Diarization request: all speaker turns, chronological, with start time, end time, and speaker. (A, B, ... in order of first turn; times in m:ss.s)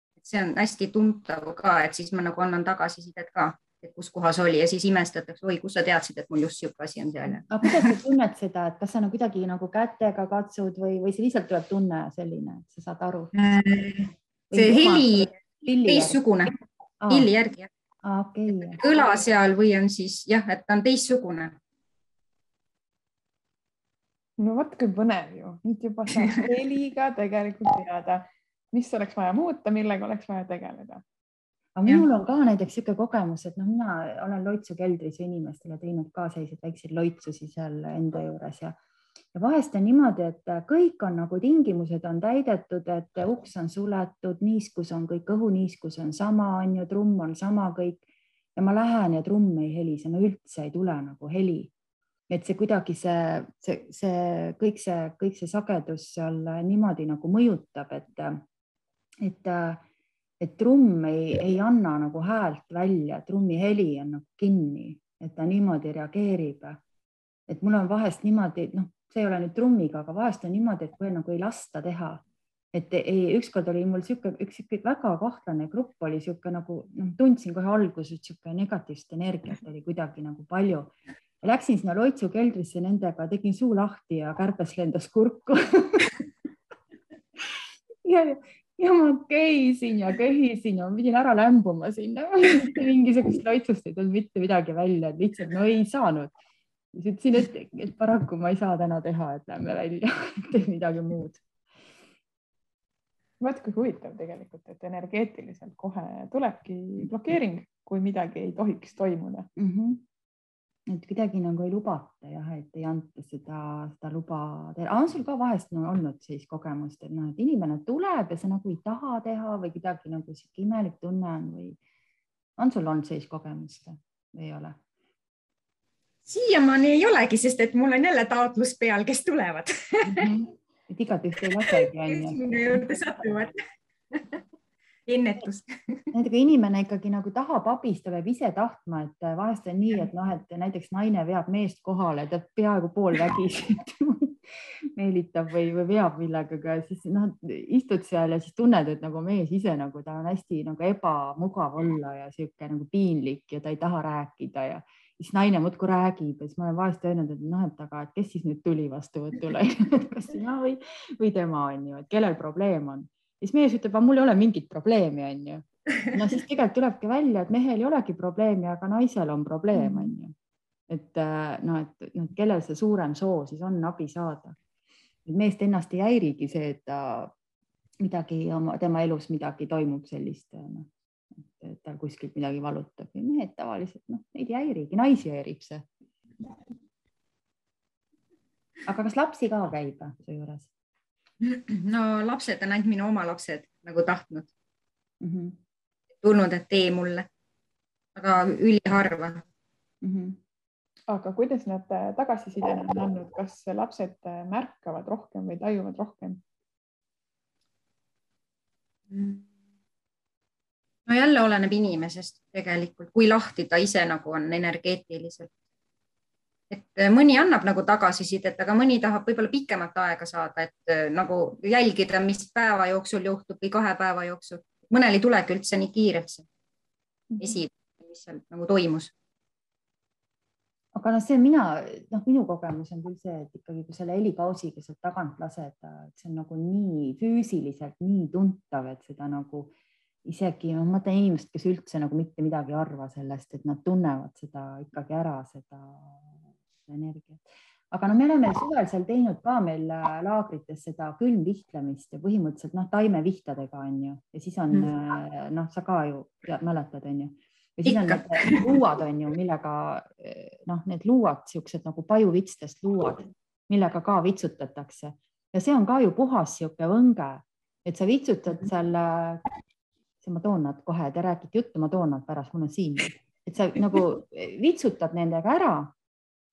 0:00.2-0:07.9 A
0:07.4-0:13.3 B
0:13.3-0:15.3 A
0:14.5-0:16.5 B
0:15.8-0:16.5 A
0:17.0-0:17.3 B
0:17.1-0:17.7 A
0:18.0-0:18.8 B
0:18.6-0:21.6 A
0:24.4-0:31.0 C
0:31.8-0:38.8 B
0:39.3-0:48.0 B
0:48.6-0:51.7 B
0:52.3-0:58.4 B
0:59.2-0:59.8 B
1:00.4-1:06.8 B
1:07.5-1:26.1 B
1:27.5-1:36.3 B
1:36.9-1:41.4 B
1:43.4-1:49.5 C
1:49.6-1:50.0 B
1:50.9-2:01.8 B
2:02.6-2:04.8 B
2:06.2-2:10.3 A
2:10.0-2:12.8 B
2:11.6-2:13.5 A
2:14.1-2:14.4 A
2:15.1-2:16.1 A
2:16.1-2:50.3 B
2:50.9-2:54.6 B
2:55.2-2:57.3 B
2:58.0-3:05.8 B
3:08.8-3:10.7 B
3:11.4-3:14.5 A
3:15.2-3:15.6 B
3:16.2-3:17.3 A
3:18.2-3:19.4 A
3:20.0-3:20.4 B
3:21.1-3:26.4 C
3:29.1-3:29.4 A
3:31.1-3:35.5 A
3:36.7-3:46.4 A
3:47.3-3:47.6 B
3:47.4-3:49.1 A
3:50.9-3:59.7 B
4:00.2-4:29.4 B
4:17.9-4:18.8 A
4:30.2-4:35.9 B